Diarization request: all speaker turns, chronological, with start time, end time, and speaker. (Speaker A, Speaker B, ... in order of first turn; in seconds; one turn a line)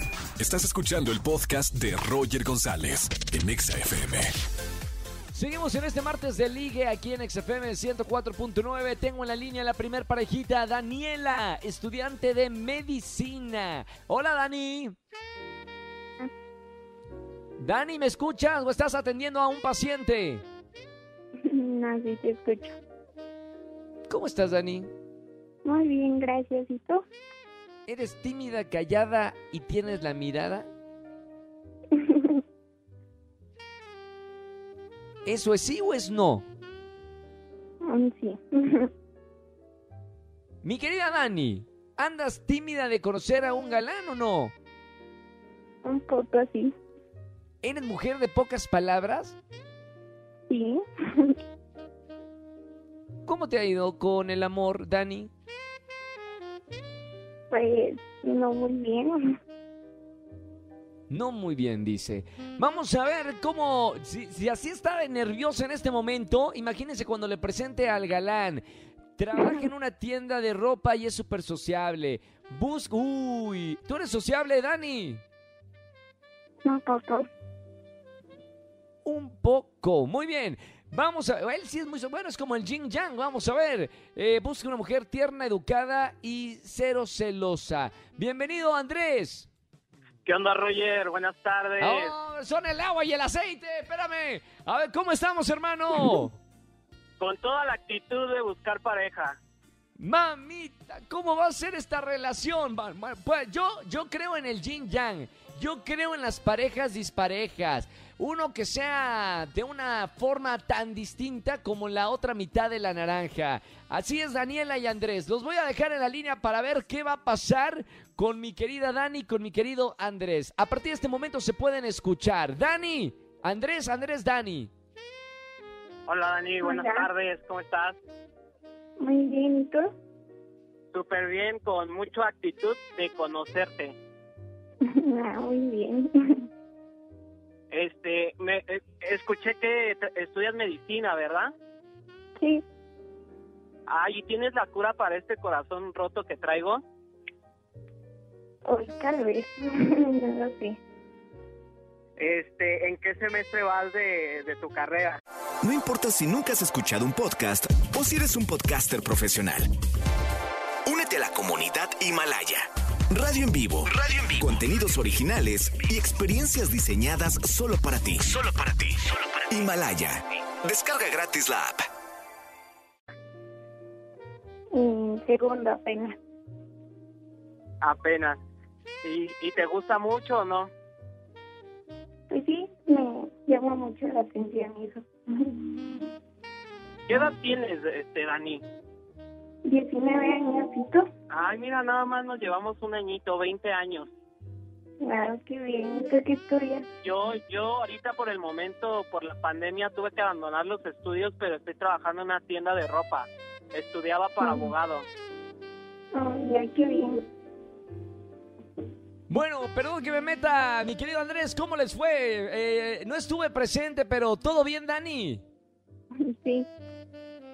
Speaker A: 0.4-4.3
Speaker B: 5.3-14.9
Speaker B: 17.6-20.4
Speaker C: 21.4-22.8
Speaker B: 24.1-24.9
Speaker C: 25.6-27.0
Speaker B: 27.9-30.7
Speaker C: 31.9-32.4
Speaker B: 35.2-36.4
Speaker C: 37.8-38.9
Speaker B: 40.6-44.5
Speaker C: 45.8-46.7
Speaker B: 47.6-49.4
Speaker C: 50.5-51.4
Speaker B: 53.2-55.3
Speaker C: 57.5-59.2
Speaker B: 61.1-68.6
Speaker B: 69.2-75.2
Speaker C: 76.6-77.2
Speaker B: 79.0-89.5
Speaker D: 90.2-92.1
Speaker B: 91.8-96.4
Speaker D: 97.2-99.4
Speaker B: 100.0-124.7
Speaker D: 126.1-128.0
Speaker C: 126.6-127.0
Speaker C: 129.0-129.9
Speaker D: 130.9-133.9
Speaker C: 134.8-136.5
Speaker D: 137.7-141.5
Speaker C: 142.4-142.6
Speaker D: 143.9-146.8
Speaker C: 148.7-150.8
Speaker D: 152.2-155.2
Speaker E: 155.6-159.7
Speaker E: 160.8-171.9
Speaker C: 174.7-176.2
Speaker D: 177.8-178.4
Speaker D: 179.0-180.7
Speaker C: 182.3-185.9
Speaker D: 187.1-188.6
Speaker C: 189.6-191.1
Speaker D: 191.3-194.1
Speaker C: 195.0-196.9
Speaker D: 197.0-205.1
Speaker C: 206.1-207.2
Speaker B: 209.3-215.4
Speaker C: 216.2-216.7